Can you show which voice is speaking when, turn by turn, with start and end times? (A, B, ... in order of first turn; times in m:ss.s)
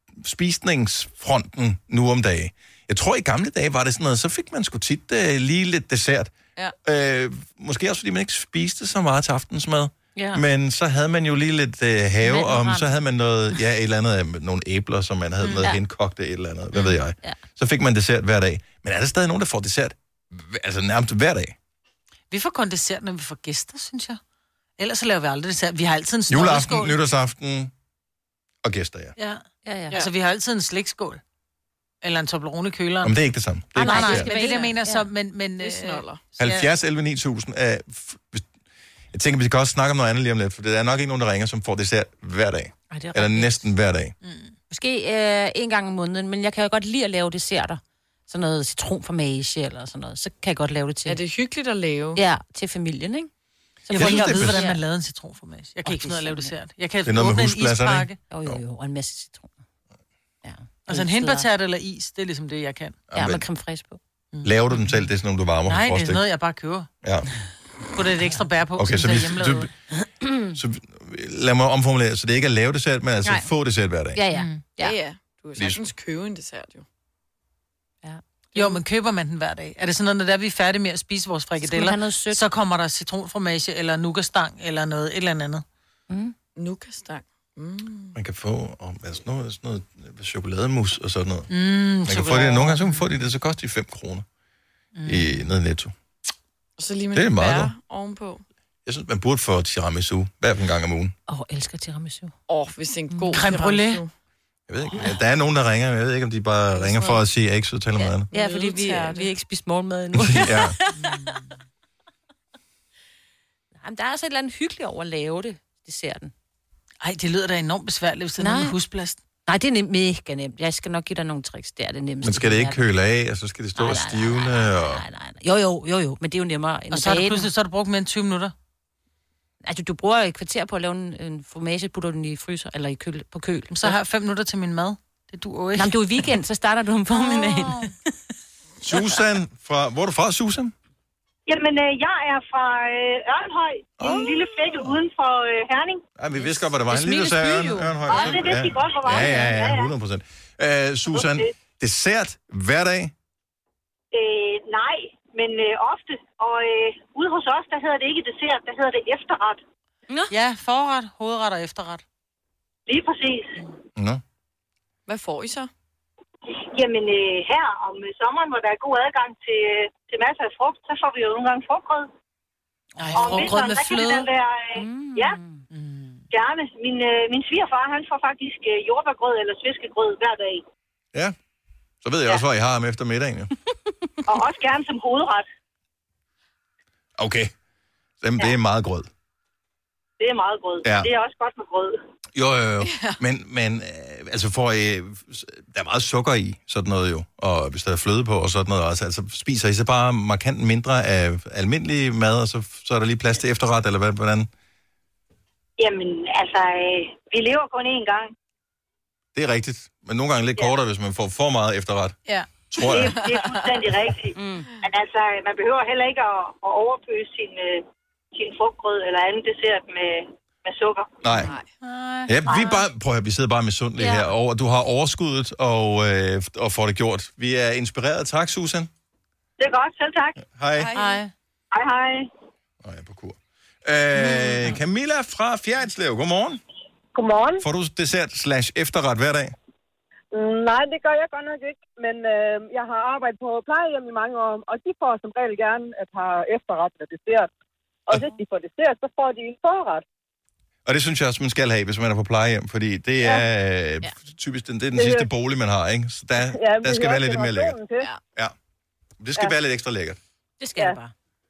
0:00.2-0:06.3 A
0:06.8-0:21.6 A
0:10.2-0:10.4 B
0:12.2-0:13.0 B
0:15.4-0:15.7 C
0:16.8-0:17.4 B
0:22.3-0:24.2 C
0:24.8-0:27.0 C
0:26.3-0:27.7 A
0:28.6-0:29.2 A
0:29.2-0:31.2 C
0:29.6-0:30.0 B
0:32.0-0:33.2 C
0:33.0-0:34.4 A
0:33.8-0:36.7 C
0:33.8-0:35.1 B
0:35.6-0:36.3 D
0:36.4-0:38.4 A
0:39.1-0:44.1 A
0:42.9-0:43.7 B
0:44.2-0:44.5 C
0:44.7-0:51.2 B
0:51.1-0:52.2 D
0:52.2-0:53.3 B
0:53.9-0:54.8 B
0:53.9-0:58.2 C
0:53.9-0:54.6 A
0:55.9-0:56.5 B
0:57.0-0:58.6 A
0:58.3-0:59.5 B
1:00.4-1:01.5 B
1:00.9-1:03.0 C
1:03.1-1:03.4 A
1:03.1-1:04.0 B
1:04.3-1:05.1 C
1:04.4-1:06.2 A
1:05.7-1:06.9 C
1:07.0-1:07.3 A
1:07.9-1:09.7 C
1:08.8-1:09.7 A
1:10.2-1:10.6 B
1:10.5-1:14.2 A
1:13.2-1:13.5 B
1:14.2-1:15.0 B
1:14.3-1:14.6 C
1:14.8-1:16.9 D
1:15.6-1:15.9 A
1:18.6-1:25.6 C
1:21.6-1:22.4 B
1:26.1-1:26.3 B
1:26.6-1:28.2 D
1:28.2-1:31.5 A
1:31.5-1:33.0 C
1:32.1-1:34.3 A
1:35.0-1:35.4 C
1:35.1-1:35.9 A
1:36.8-1:38.4 D
1:37.1-1:37.7 A
1:38.9-1:41.1 A
1:41.3-1:42.3 B
1:42.5-1:44.1 D
1:43.3-1:44.0 C
1:44.7-1:48.3 A
1:46.8-1:47.2 B
1:48.0-1:51.2 B
1:48.3-1:49.3 D
1:50.2-1:50.8 A
1:51.0-1:51.3 C
1:53.8-1:56.3 B
1:57.0-1:59.2 C
1:58.4-1:58.8 B
1:59.5-2:02.8 B
2:02.2-2:05.0 A
2:03.8-2:07.5 B
2:06.9-2:08.5 C
2:09.6-2:14.0 B
2:13.7-2:16.3 C
2:15.8-2:17.9 B
2:17.1-2:17.9 C
2:18.8-2:20.7 A
2:21.5-2:26.0 E
2:24.0-2:25.0 A
2:26.2-2:33.1 A
2:26.4-2:28.4 B
2:28.1-2:29.9 E
2:29.1-2:29.5 B
2:31.1-2:31.5 E
2:34.1-2:39.6 E
2:40.3-2:42.0 C
2:42.9-2:43.6 E
2:44.0-2:44.2 A
2:45.1-2:45.7 D
2:46.6-2:52.1 E
2:53.0-2:54.3 C
2:53.1-2:53.7 B
2:53.2-2:55.4 E
2:54.8-2:55.6 B
2:55.7-2:56.2 C
2:56.3-3:00.6 E
3:02.0-3:03.5 A
3:04.3-3:05.4 E
3:07.2-3:07.5 A
3:08.2-3:09.1 A
3:10.2-3:12.0 E
3:10.8-3:11.1 A
3:12.4-3:24.5 A
3:12.8-3:13.2 D
3:25.8-3:28.3 E
3:29.4-3:32.2 A
3:32.7-3:33.2 A
3:32.8-3:41.1 E
3:33.1-3:33.8 D
3:34.3-3:34.7 B
3:41.2-3:41.5 A
3:41.4-3:41.7 D
3:41.8-3:42.5 C
3:42.3-3:48.9 A
3:44.0-3:44.3 B
3:49.6-3:50.4 E
3:50.4-3:50.9 A
3:50.7-3:51.2 D
3:51.0-3:51.3 C
3:51.7-3:52.3 E
3:52.8-3:56.6 A
3:57.2-3:57.6 F
3:57.6-3:59.5 A
4:00.3-4:07.5 F
4:08.1-4:10.0 F
4:10.9-4:17.8 A
4:13.2-4:13.5 F
4:14.9-4:15.3 F
4:16.4-4:18.1 F
4:19.2-4:20.2 A
4:20.6-4:21.1 B